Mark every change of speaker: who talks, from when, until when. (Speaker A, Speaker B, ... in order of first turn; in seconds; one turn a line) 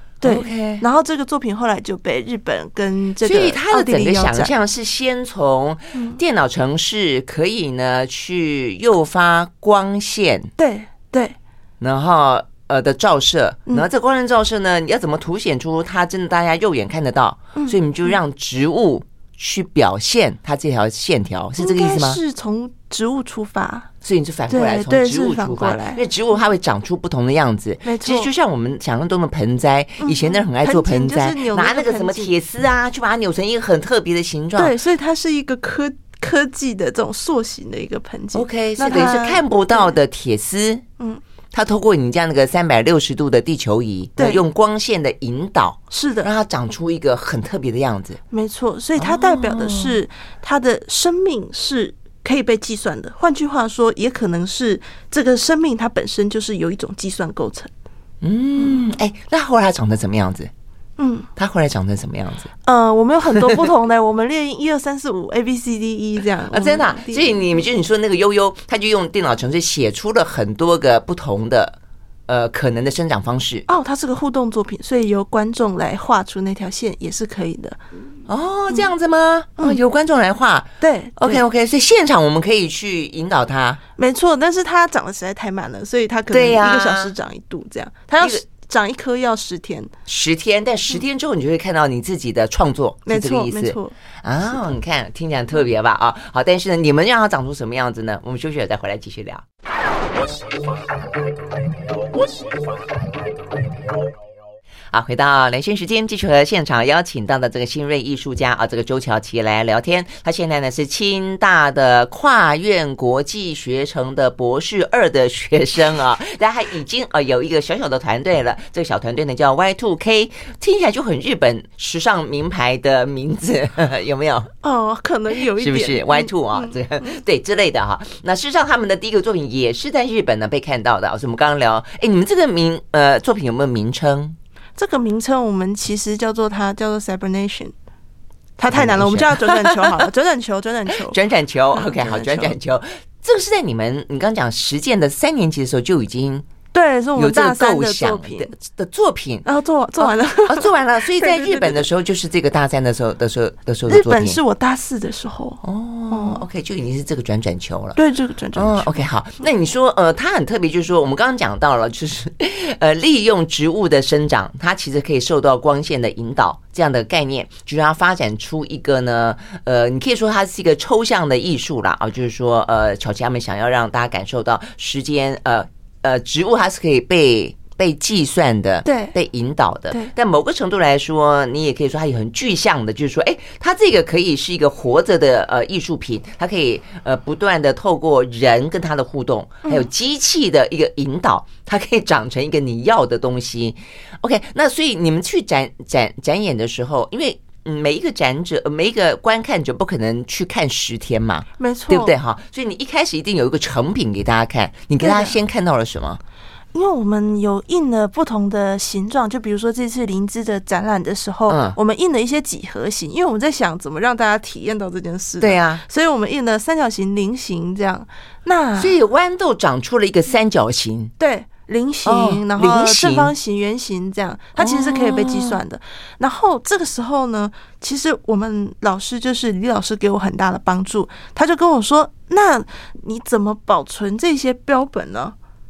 Speaker A: 0.2-4.5
Speaker B: 0.2-0.8
Speaker B: 3.2-10.5
Speaker A: 5.9-6.2
Speaker A: 10.6-11.4
Speaker B: 11.8-22.2
Speaker A: 17.6-18.2
Speaker A: 21.6-23.9
Speaker B: 24.0-34.8
Speaker A: 24.5-26.0
Speaker A: 27.9-28.3
Speaker A: 30.0-32.3
Speaker A: 34.6-39.9
Speaker B: 38.3-40.9
Speaker B: 41.5-48.2
Speaker A: 44.2-44.4
Speaker A: 45.9-46.3
Speaker A: 48.3-57.7
Speaker B: 49.0-50.0
Speaker B: 58.2-60.5
Speaker A: 61.0-61.3
Speaker B: 61.4-62.5
Speaker A: 62.6-67.4
Speaker B: 66.5-71.8
Speaker B: 72.3-73.7
Speaker A: 73.7-77.8
Speaker B: 78.3-83.8
Speaker A: 80.8-81.4
Speaker A: 84.0-89.9
Speaker B: 86.3-87.1
Speaker B: 90.1-99.4
Speaker A: 93.1-94.0
Speaker B: 104.9-124.5
Speaker A: 124.6-127.2
Speaker B: 125.5-134.4
Speaker A: 134.8-137.7
Speaker A: 138.6-141.2
Speaker B: 138.7-140.1
Speaker B: 140.9-146.5
Speaker A: 141.7-142.6
Speaker A: 146.7-148.5
Speaker B: 147.2-149.5
Speaker A: 149.4-151.9
Speaker B: 150.0-154.4
Speaker A: 153.9-156.4
Speaker B: 155.6-158.0
Speaker A: 158.0-159.0
Speaker B: 158.5-206.2
Speaker A: 178.8-179.2
Speaker A: 201.6-202.2
Speaker A: 205.0-205.4
Speaker A: 206.7-219.0
Speaker B: 211.5-211.8
Speaker B: 215.4-215.8
Speaker B: 218.8-221.1
Speaker A: 221.2-235.3
Speaker B: 222.1-223.3
Speaker B: 224.6-225.6